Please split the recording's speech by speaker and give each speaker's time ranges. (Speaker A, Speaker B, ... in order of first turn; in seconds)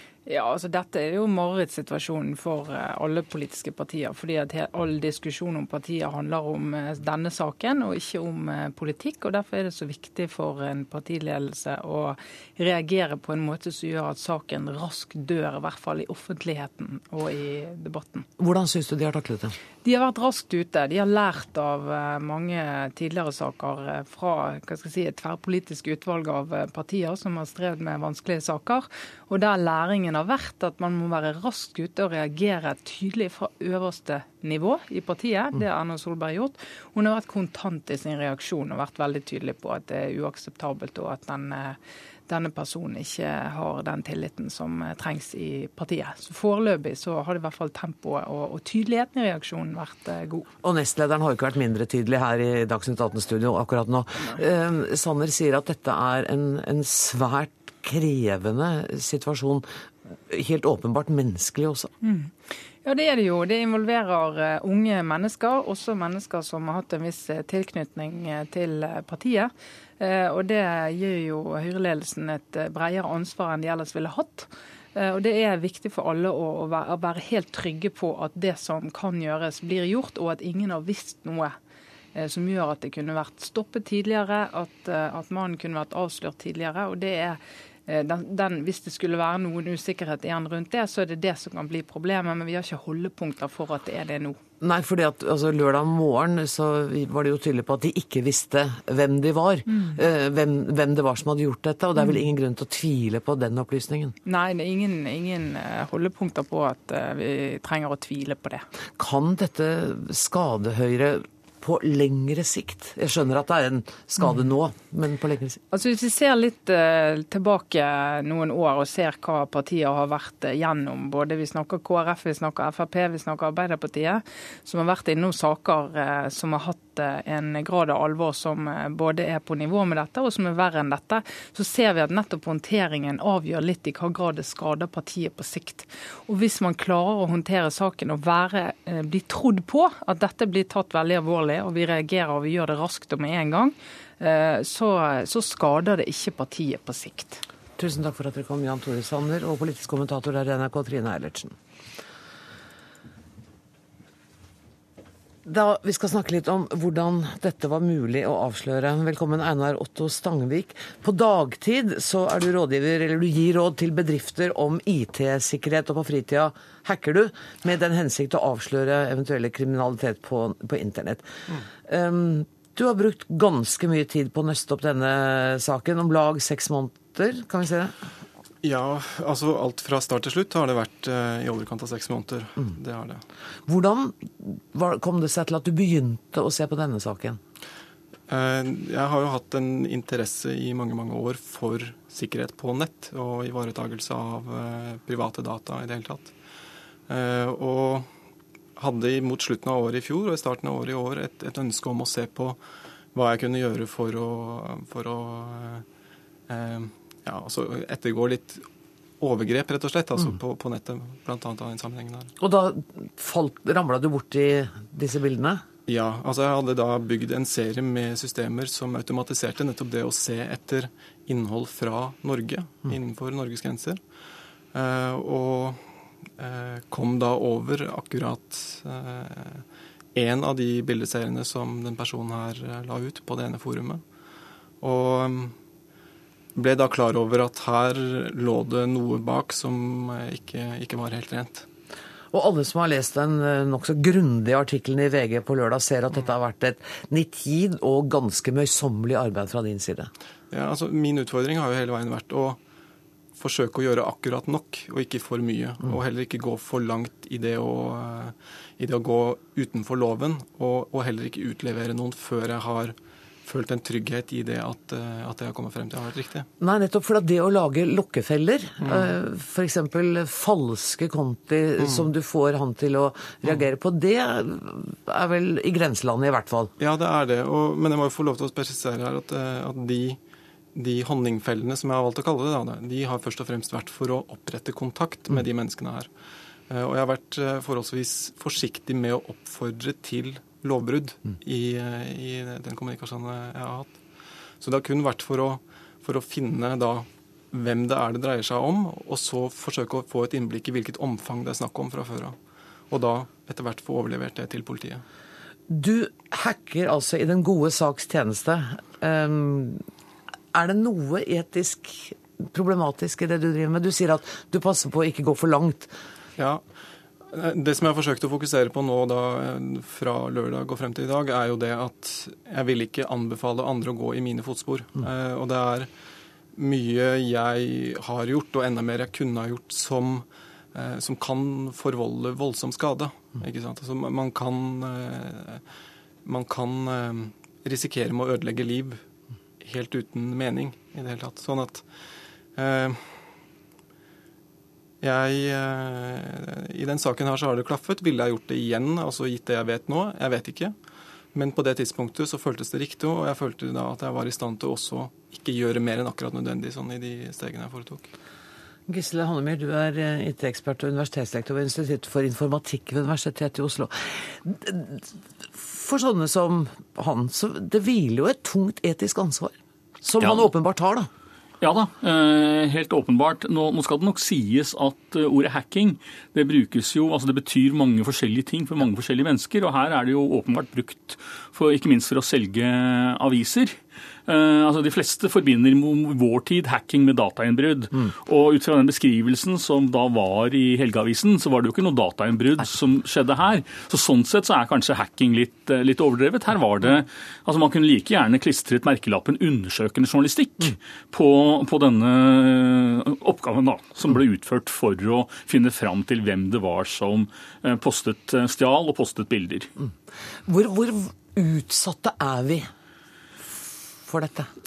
Speaker A: 0.2-18.3, 19.8-50.5, 62.0-62.3, 62.8-81.6, 82.1-94.4, 99.7-100.0, 104.2-108.6, 115.7-147.4
Speaker B: 18.4-19.6, 50.6-59.7, 60.3-61.9, 94.6-104.1, 109.0-115.6, 147.8-151.6, 155.4-177.9, 183.7-187.4, 212.4-215.6, 242.3-250.1, 266.6-276.7, 305.7-309.8, 310.5-315.9, 358.9-371.1, 410.4-412.7, 414.1-414.5
Speaker C: 178.6-183.2, 188.3-196.3, 197.1-198.1, 198.8-202.6, 203.1-205.8, 206.5-208.6, 209.2-212.3, 215.9-224.0, 224.7-225.8, 226.4-234.0, 234.8-235.5, 236.5-241.7, 250.5-252.6, 253.3-266.5, 268.8-269.1, 271.8-272.1, 276.8-280.2, 280.7-286.1, 286.7-294.0, 294.6-302.4, 302.9-305.0, 316.4-316.6, 317.3-325.9, 326.5-335.6, 336.2-339.0, 339.6-341.8, 342.5-343.2, 345.0-350.7, 351.3-358.1
Speaker D: 371.6-409.7